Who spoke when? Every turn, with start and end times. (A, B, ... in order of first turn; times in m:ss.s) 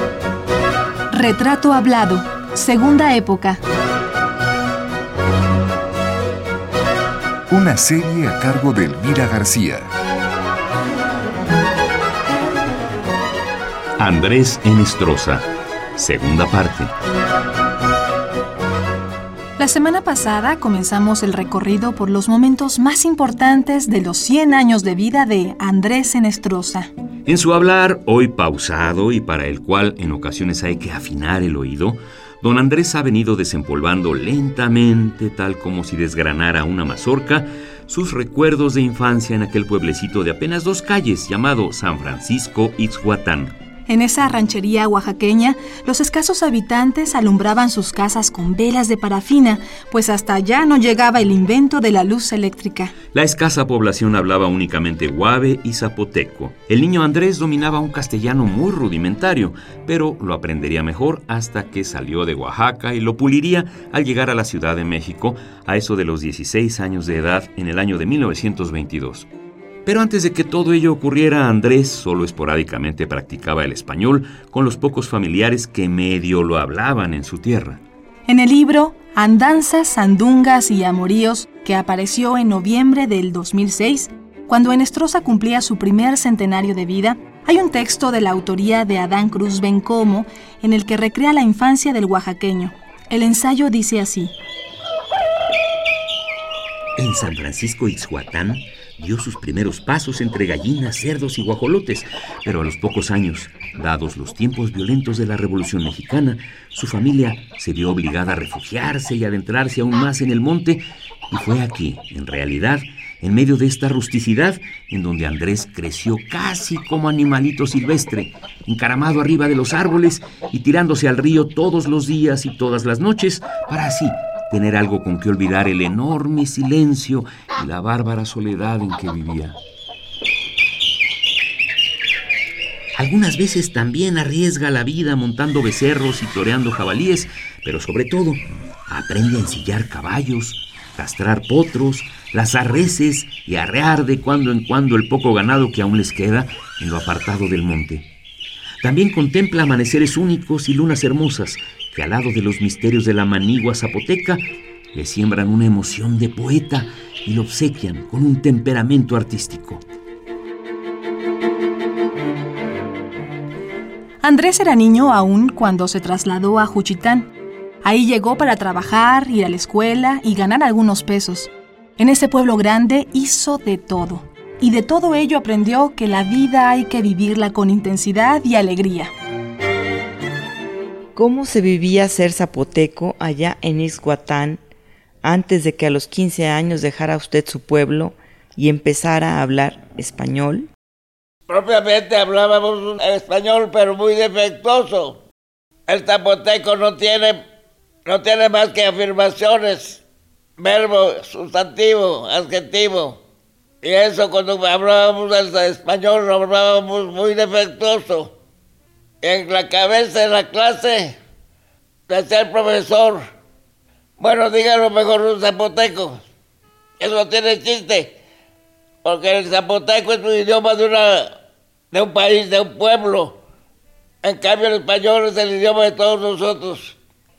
0:01.1-0:03.6 A
0:07.5-0:09.9 B
0:14.0-0:16.9 C
0:19.6-0:26.9 A
0:27.2-0:43.5 C
0:43.9-0:52.9 A
0:53.1-1:09.3 C
1:09.8-1:17.8 C
1:18.3-1:34.3 A
1:37.0-2:09.6 C
2:13.0-2:28.1 C
2:28.8-2:34.4 C
2:34.9-2:39.8 C
2:44.2-2:47.3 A
2:47.8-2:59.1 A
3:01.1-3:04.6 D
3:05.2-3:10.7 D
3:11.5-3:15.2 E
3:15.9-3:17.4 E
3:18.0-3:20.0 E
3:20.6-3:23.2 E
3:23.8-3:28.3 E
3:29.2-3:31.2 E
3:32.1-3:33.3 E
3:34.2-3:36.2 E
3:37.0-3:38.2 E
3:39.0-3:41.4 E
3:41.9-3:43.4 E
3:44.2-3:47.0 E